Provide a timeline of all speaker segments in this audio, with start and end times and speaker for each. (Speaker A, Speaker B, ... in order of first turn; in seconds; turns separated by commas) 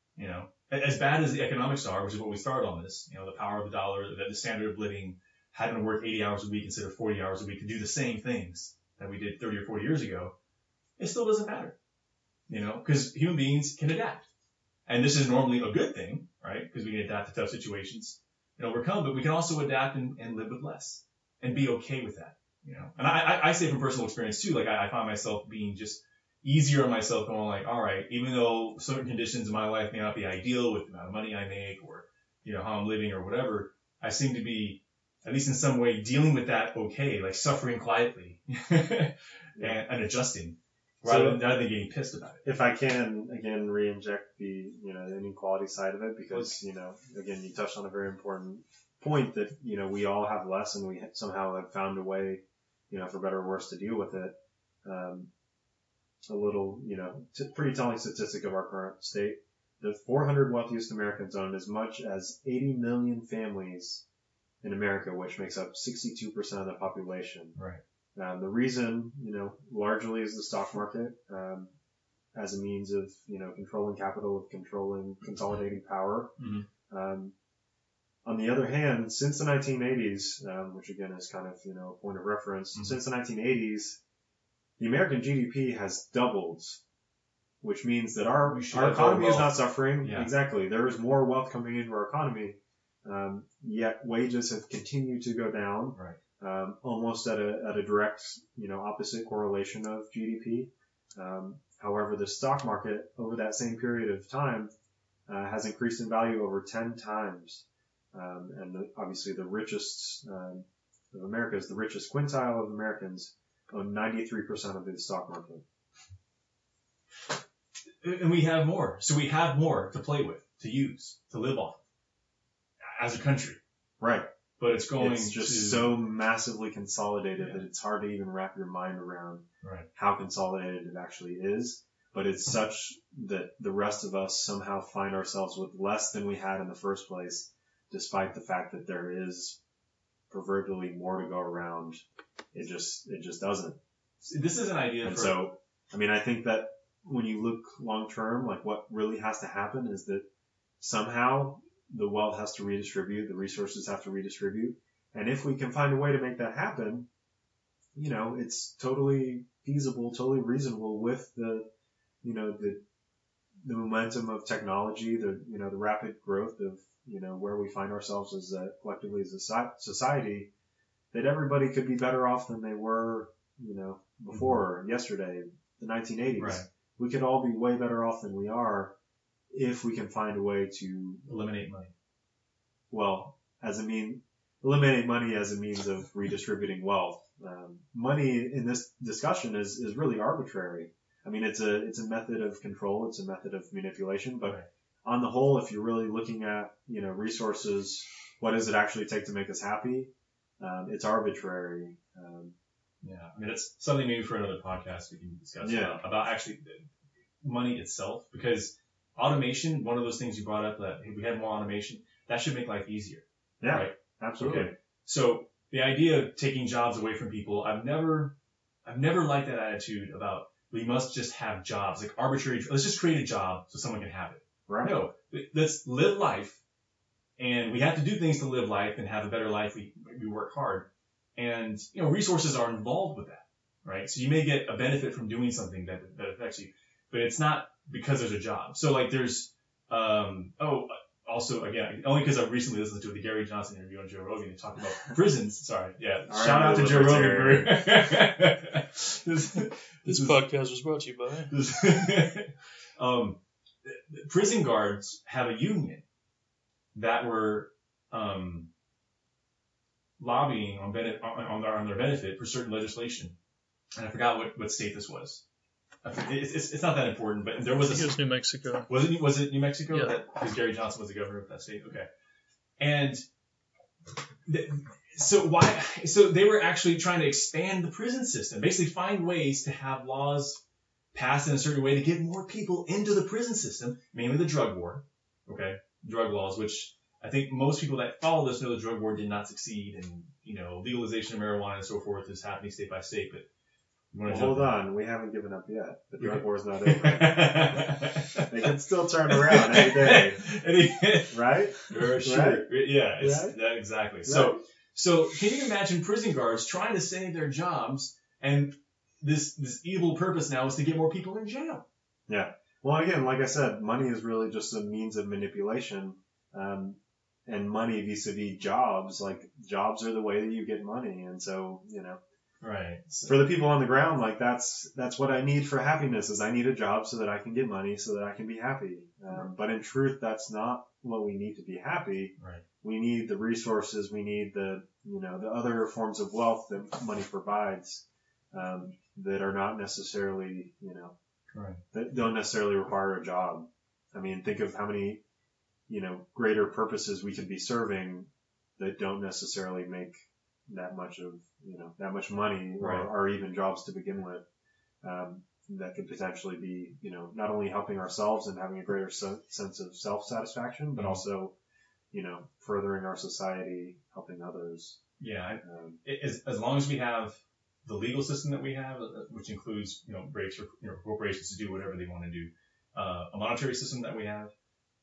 Speaker A: 0.2-10.3, Speaker A: 11.0-11.8, Speaker A: 12.5-14.3, Speaker A: 14.9-42.5, Speaker B: 41.0-41.5, Speaker B: 42.5-55.3, Speaker A: 46.3-46.6, Speaker B: 56.3-64.0, Speaker B: 64.6-67.6, Speaker A: 67.6-67.8, Speaker B: 68.2-71.7, Speaker B: 72.3-76.3, Speaker A: 76.4-76.7, Speaker B: 76.9-77.3, Speaker B: 78.2-84.0, Speaker B: 84.8-86.8, Speaker B: 87.6-104.7, Speaker A: 88.5-90.3, Speaker B: 105.3-115.6, Speaker A: 118.0-121.8, Speaker A: 122.9-123.6, Speaker B: 124.0-124.3, Speaker A: 124.6-126.0, Speaker B: 125.0-139.6, Speaker A: 129.6-129.9, Speaker B: 140.3-143.8, Speaker A: 144.2-145.4, Speaker B: 145.0-150.2, Speaker B: 150.8-157.1, Speaker B: 157.9-161.7, Speaker B: 162.2-162.8, Speaker B: 163.6-170.5, Speaker B: 171.1-178.9, Speaker A: 174.3-174.6, Speaker A: 176.4-176.7, Speaker B: 179.5-181.3, Speaker A: 181.3-181.9, Speaker B: 182.9-202.6, Speaker A: 203.0-206.9, Speaker B: 205.6-206.0, Speaker A: 207.4-218.3, Speaker B: 213.6-214.7, Speaker A: 218.9-226.6, Speaker B: 224.7-224.9, Speaker A: 227.4-250.4, Speaker B: 246.3-247.8, Speaker C: 250.1-251.6, Speaker A: 251.5-256.0, Speaker A: 256.9-258.7, Speaker A: 260.2-263.4, Speaker A: 263.9-265.4, Speaker A: 266.0-268.1, Speaker C: 267.8-269.0, Speaker A: 268.9-272.1, Speaker A: 272.8-273.2, Speaker A: 274.4-280.6, Speaker A: 281.1-293.4, Speaker A: 294.1-294.8, Speaker B: 294.2-297.9, Speaker A: 296.2-311.8, Speaker B: 298.5-300.4, Speaker B: 301.3-303.6, Speaker B: 304.2-304.6, Speaker B: 312.3-322.2, Speaker A: 322.6-323.4, Speaker B: 323.3-341.1, Speaker A: 332.4-332.6, Speaker A: 341.5-341.8, Speaker B: 341.9-345.2, Speaker B: 345.9-354.4, Speaker A: 352.8-353.1, Speaker B: 355.0-361.5, Speaker A: 360.9-361.2, Speaker B: 362.1-365.0, Speaker A: 365.2-374.5, Speaker B: 365.6-366.0